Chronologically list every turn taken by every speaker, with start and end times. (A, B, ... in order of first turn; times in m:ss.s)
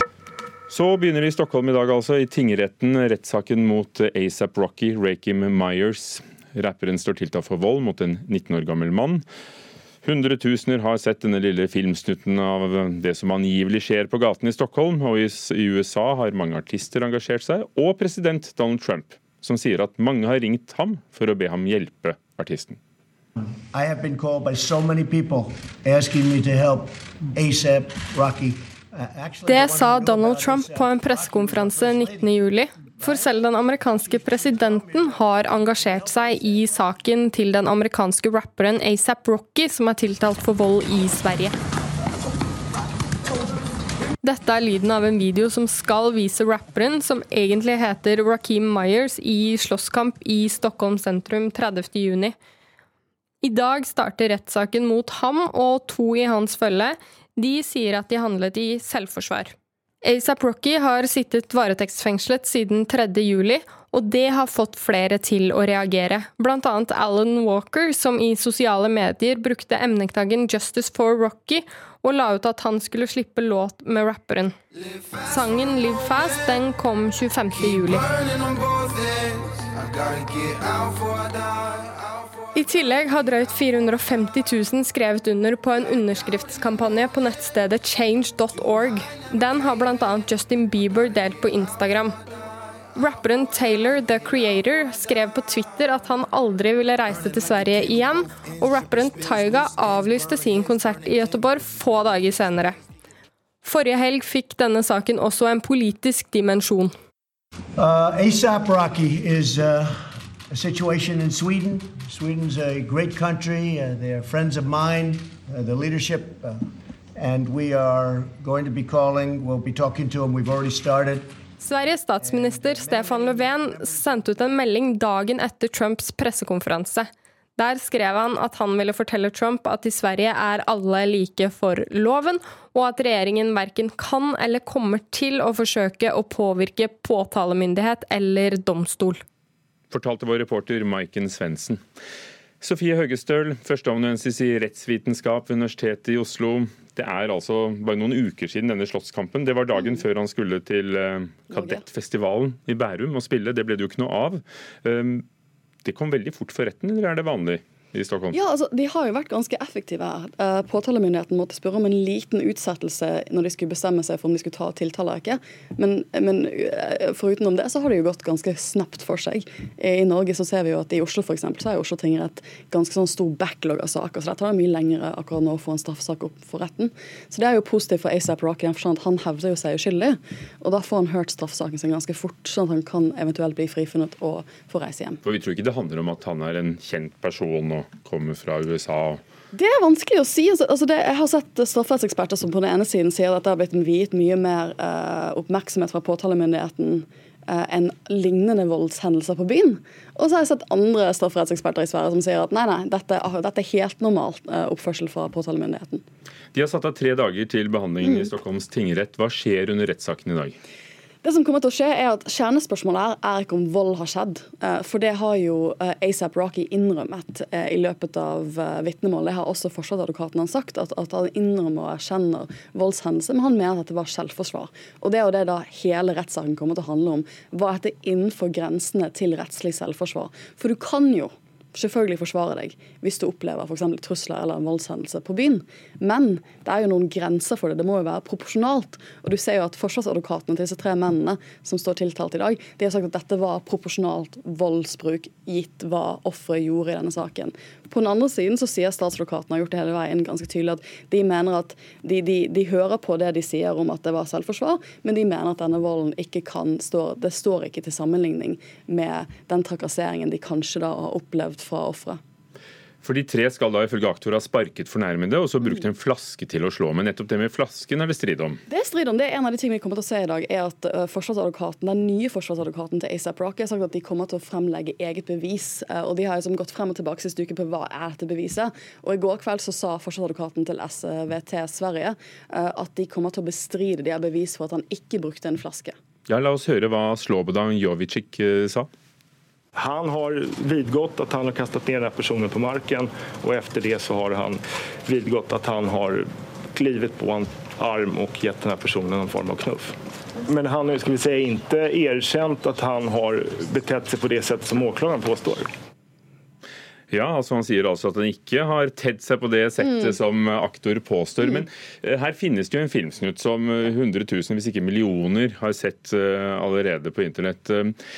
0:00.7-0:09.2 A
0:10.0-0:22.8 A
0:23.7-0:32.3 B
0:29.4-0:41.5 C
0:32.9-0:33.2 B
0:34.1-0:36.7 B
0:44.2-0:52.3 C
0:53.4-1:14.5 C
1:15.2-1:18.1 C
1:22.5-1:32.1 C
1:33.0-1:42.8 C
1:43.6-1:46.9 C
1:47.8-1:56.6 B
1:57.1-2:01.4 B
2:01.6-2:19.2 C
2:02.2-2:04.3 B
2:19.9-2:21.8 A
2:22.6-2:35.2 A
2:31.5-2:31.8 D
2:35.8-2:38.4 A
2:38.3-3:05.2 D
3:05.2-3:09.2 A
3:09.5-3:26.0 D
3:26.5-3:30.6 A
3:28.0-3:28.3 D
3:31.2-4:22.2 D
4:23.0-4:28.6 A
4:28.7-4:45.9 D
4:46.3-4:48.9 A
4:49.8-4:56.2 E
4:56.7-4:59.8 E
5:00.5-5:05.5 E
5:07.1-5:18.0 A